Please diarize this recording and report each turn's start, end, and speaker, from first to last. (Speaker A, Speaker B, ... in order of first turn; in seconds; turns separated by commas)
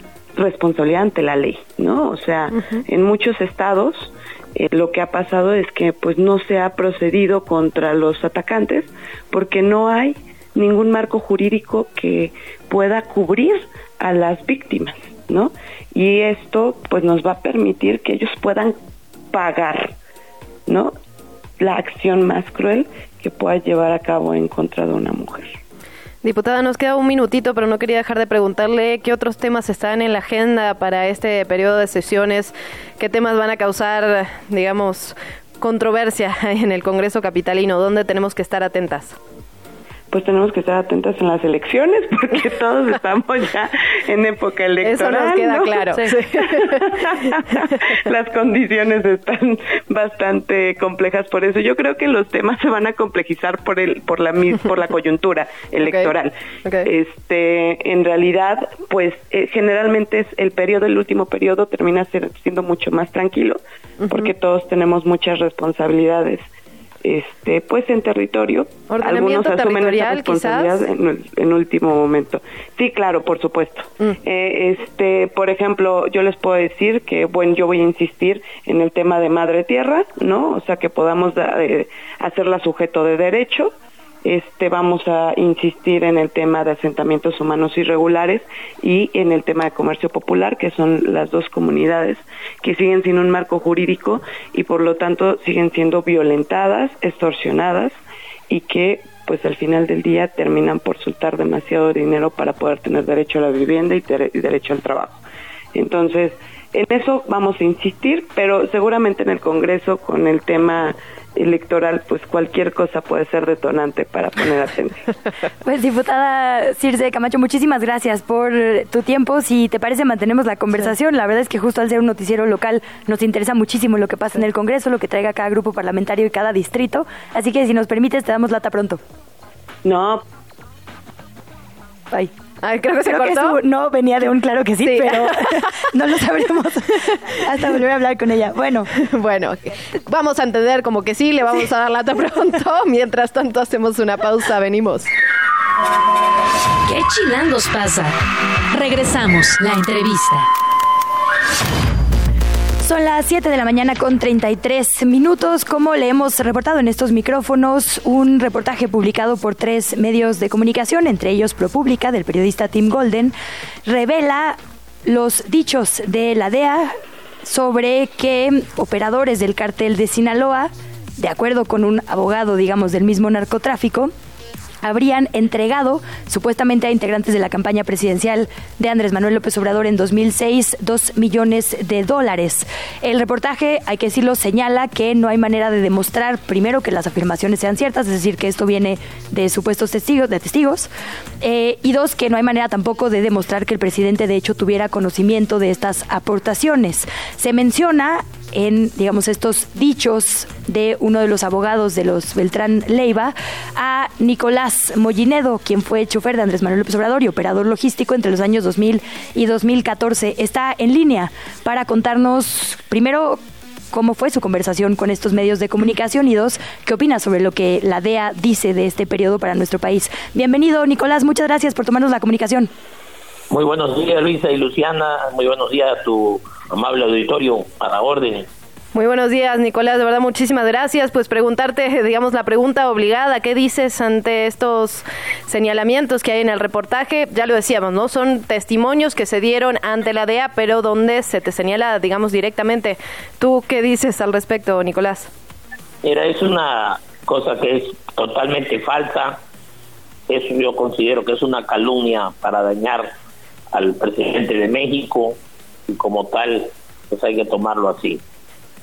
Speaker A: 0.3-18.7, Speaker A: 19.3-19.9, Speaker A: 20.7-20.9, Speaker A: 21.6-25.6, Speaker B: 26.2-39.1, Speaker A: 40.1-56.3, Speaker B: 44.8-46.9, Speaker B: 55.8-56.1, Speaker A: 56.8-66.4, Speaker B: 64.0-64.3, Speaker A: 67.0-83.7, Speaker B: 68.9-70.8, Speaker A: 84.2-98.0, Speaker A: 98.5-105.2, Speaker A: 105.7-115.1, Speaker C: 115.6-129.0, Speaker A: 129.8-130.2, Speaker B: 132.6-133.6, Speaker C: 133.0-138.9, Speaker B: 134.8-135.7, Speaker B: 138.9-145.1, Speaker D: 146.9-148.2, Speaker D: 148.7-150.5, Speaker C: 152.8-163.3, Speaker C: 163.8-174.1, Speaker C: 174.8-190.9, Speaker C: 191.4-213.4, Speaker C: 213.9-222.7, Speaker E: 223.5-228.5, Speaker B: 228.9-245.3, Speaker E: 246.0-249.4, Speaker E: 250.3-253.1, Speaker E: 253.7-255.4, Speaker E: 255.9-258.2